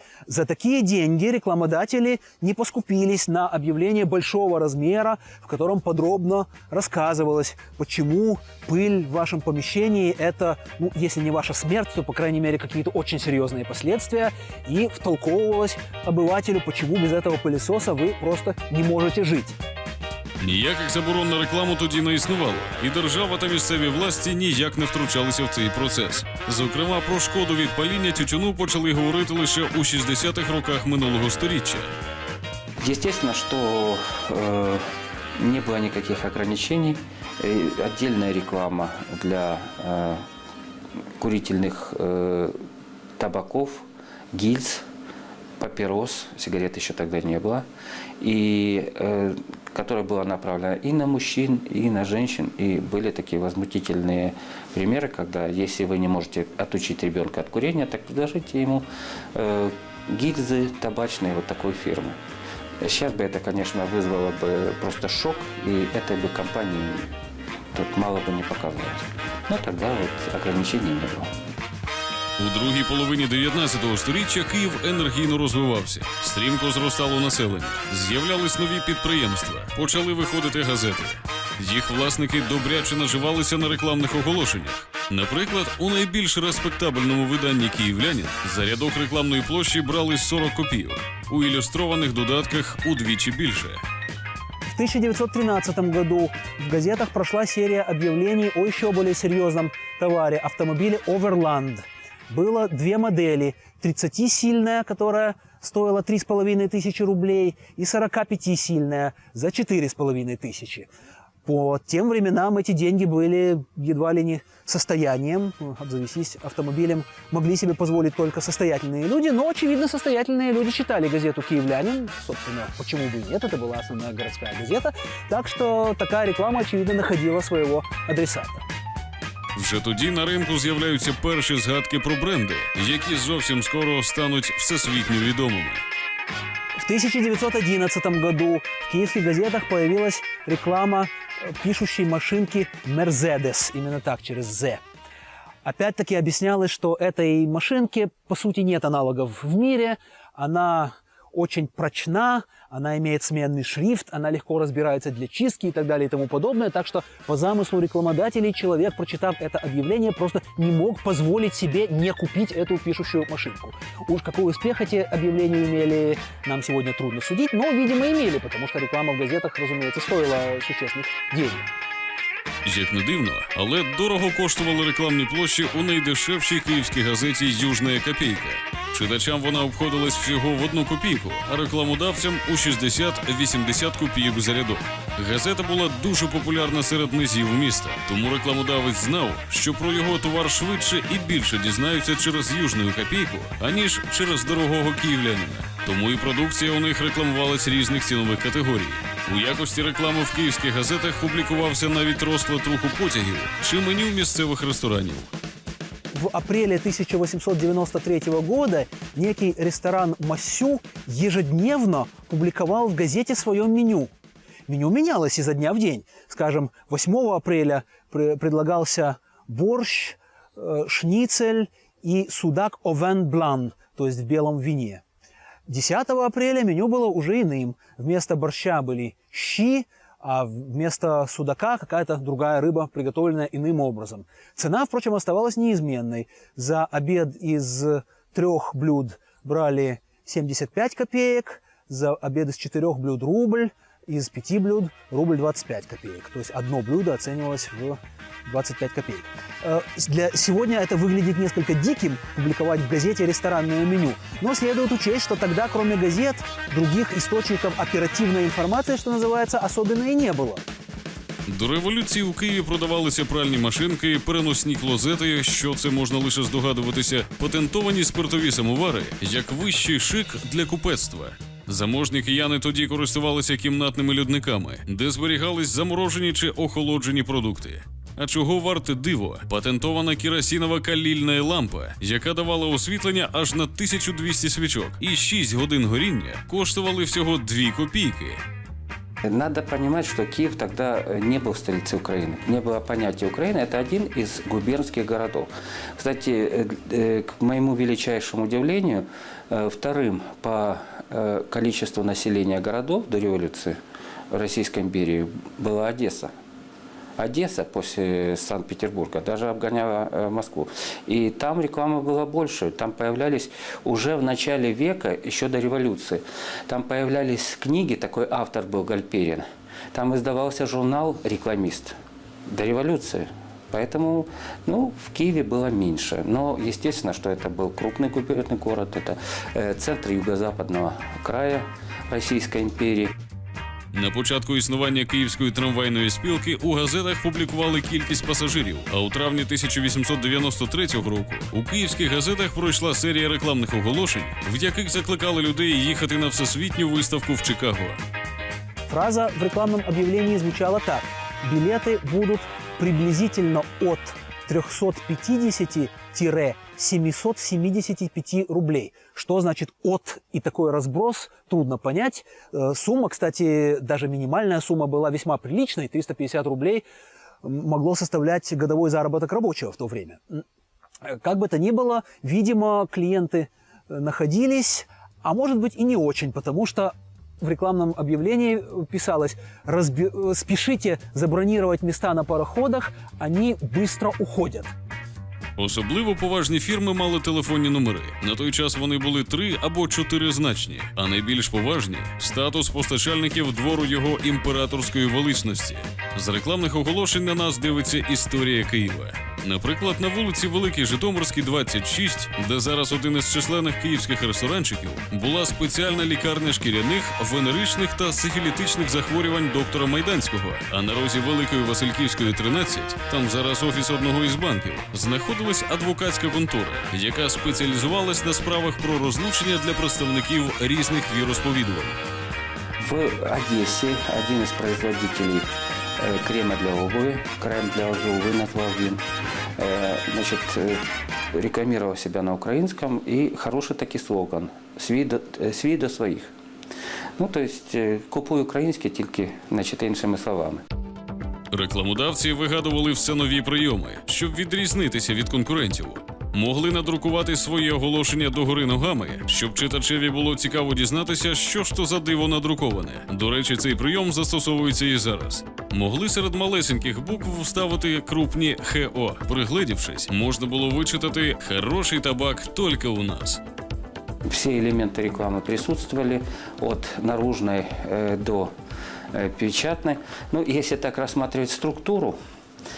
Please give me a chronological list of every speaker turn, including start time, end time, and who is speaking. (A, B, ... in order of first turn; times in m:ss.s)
0:00.3-0:19.6 A
0:20.4-0:31.9 B
0:32.8-0:40.2 C
0:41.2-0:42.5 C
0:43.2-0:44.8 C
0:45.6-0:47.6 C
0:48.2-1:02.2 C
1:02.8-1:07.1 C
1:07.7-1:11.3 C
1:12.4-1:33.8 B
1:34.6-1:50.9 A
1:51.4-2:08.6 A
2:09.5-2:15.8 B
2:16.8-2:24.8 A
2:25.6-2:51.7 A
2:52.6-3:25.3 B
3:26.1-3:34.1 A
3:34.7-3:45.0 A
3:45.7-4:20.6 A
4:21.5-4:48.4 B
4:49.2-5:03.8 C
5:04.3-5:06.3 C
5:07.2-5:21.9 C
5:22.5-5:33.2 C
5:33.9-5:48.0 B
5:48.9-6:06.8 A
6:07.4-6:10.4 A
6:11.0-6:24.7 A
6:25.6-7:02.0 B
7:02.8-7:05.5 C
7:06.0-7:09.0 C
7:09.6-7:10.8 C
7:11.3-7:16.3 C
7:17.2-7:20.6 C
7:21.5-7:43.4 B
7:44.3-7:48.5 C
7:49.1-7:52.2 C